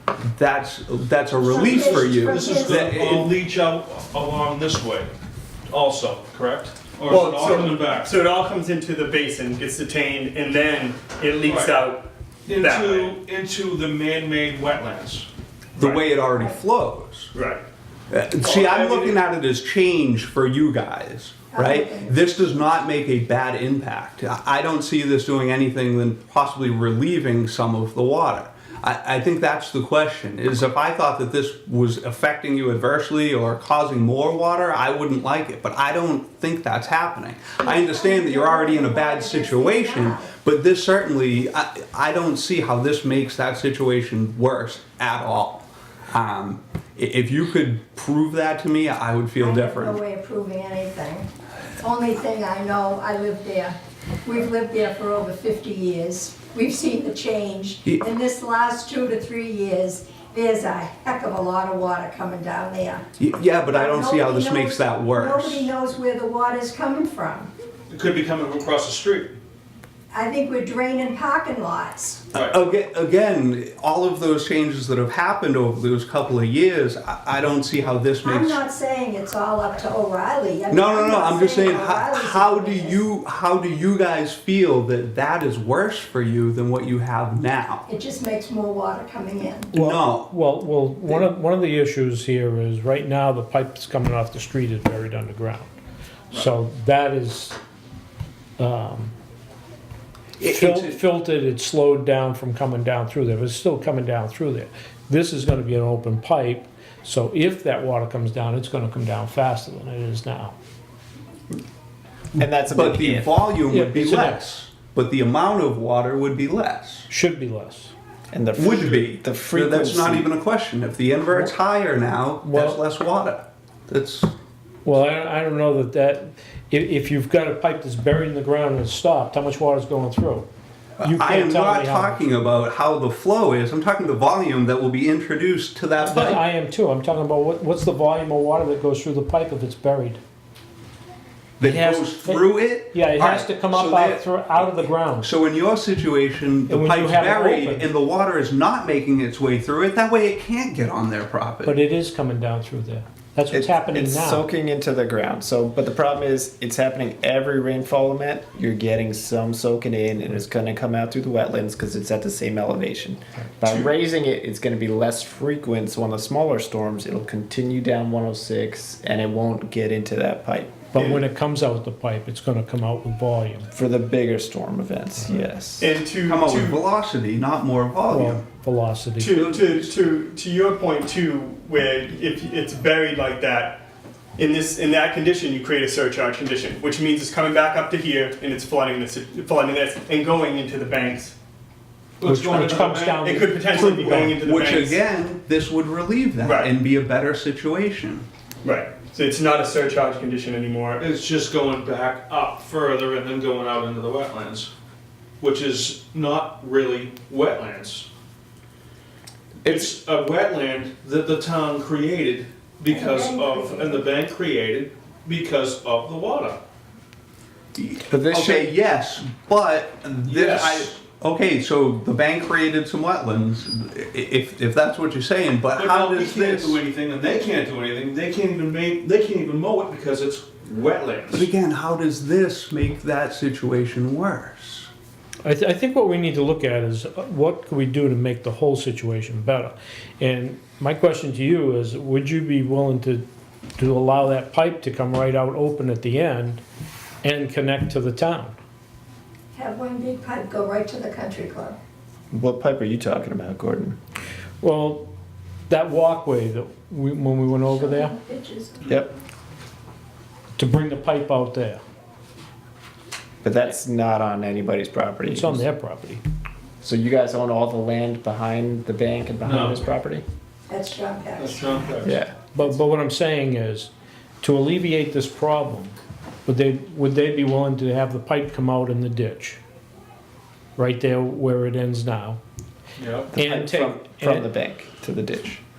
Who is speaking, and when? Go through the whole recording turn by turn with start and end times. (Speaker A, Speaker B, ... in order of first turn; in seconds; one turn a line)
Speaker A: 0.2-3.3
Speaker B: 1.4-3.1
Speaker C: 1.6-5.1
Speaker C: 5.7-8.1
Speaker D: 7.1-13.1
Speaker C: 11.4-11.8
Speaker C: 12.5-15.3
Speaker D: 15.8-16.0
Speaker A: 15.8-17.3
Speaker D: 17.3-17.6
Speaker A: 18.1-50.0
Speaker C: 18.4-19.1
Speaker B: 21.5-22.2
Speaker B: 37.6-40.3
Speaker B: 49.4-51.3
Speaker B: 51.8-63.0
Speaker A: 63.2-65.7
Speaker B: 63.7-67.5
Speaker C: 67.9-69.4
Speaker B: 70.1-72.2
Speaker C: 72.3-72.6
Speaker A: 72.4-78.6
Speaker B: 78.2-83.0
Speaker A: 80.7-87.8
Speaker B: 87.9-89.7
Speaker A: 89.7-90.3
Speaker E: 89.7-95.7
Speaker E: 96.3-97.6
Speaker E: 98.6-99.1
Speaker A: 100.4-101.0
Speaker E: 100.4-110.5
Speaker F: 112.4-113.3
Speaker A: 112.7-117.1
Speaker E: 113.7-114.5
Speaker E: 117.1-117.9
Speaker F: 118.3-120.3
Speaker A: 118.5-124.3
Speaker E: 121.3-121.5
Speaker E: 122.4-122.8
Speaker E: 124.8-130.5
Speaker A: 131.0-136.4
Speaker E: 131.0-132.2
Speaker E: 136.0-140.2
Speaker E: 141.6-145.3
Speaker A: 141.6-151.8
Speaker E: 146.7-147.9
Speaker E: 151.6-154.4
Speaker F: 153.5-170.9
Speaker E: 170.9-173.7
Speaker F: 173.7-175.9
Speaker D: 175.8-176.8
Speaker A: 176.2-178.4
Speaker E: 178.1-179.4
Speaker D: 179.2-183.8
Speaker A: 179.3-179.9
Speaker D: 184.4-191.3
Speaker C: 192.2-193.2
Speaker E: 192.2-194.5
Speaker D: 193.2-195.0
Speaker A: 194.4-198.2
Speaker D: 196.4-196.7
Speaker D: 198.6-201.0
Speaker C: 200.9-204.7
Speaker C: 205.4-208.1
Speaker C: 209.6-216.6
Speaker B: 212.9-214.0
Speaker A: 217.8-226.8
Speaker F: 218.1-218.8
Speaker C: 220.3-221.0
Speaker C: 225.7-231.5
Speaker A: 231.3-234.9
Speaker E: 235.4-243.2
Speaker E: 243.8-246.6
Speaker E: 247.2-248.6
Speaker B: 249.5-251.8
Speaker F: 252.3-254.0
Speaker E: 254.6-255.1
Speaker E: 255.7-258.1
Speaker B: 257.6-258.9
Speaker E: 260.6-261.8
Speaker F: 263.4-265.6
Speaker E: 265.3-266.2
Speaker F: 266.8-270.2
Speaker C: 269.4-269.8
Speaker B: 270.7-271.7
Speaker C: 271.4-272.2
Speaker F: 272.0-272.4
Speaker E: 272.5-273.9
Speaker E: 274.4-275.9
Speaker E: 276.4-279.6
Speaker E: 280.8-282.4
Speaker C: 283.0-283.3
Speaker F: 283.3-285.6
Speaker E: 283.3-284.5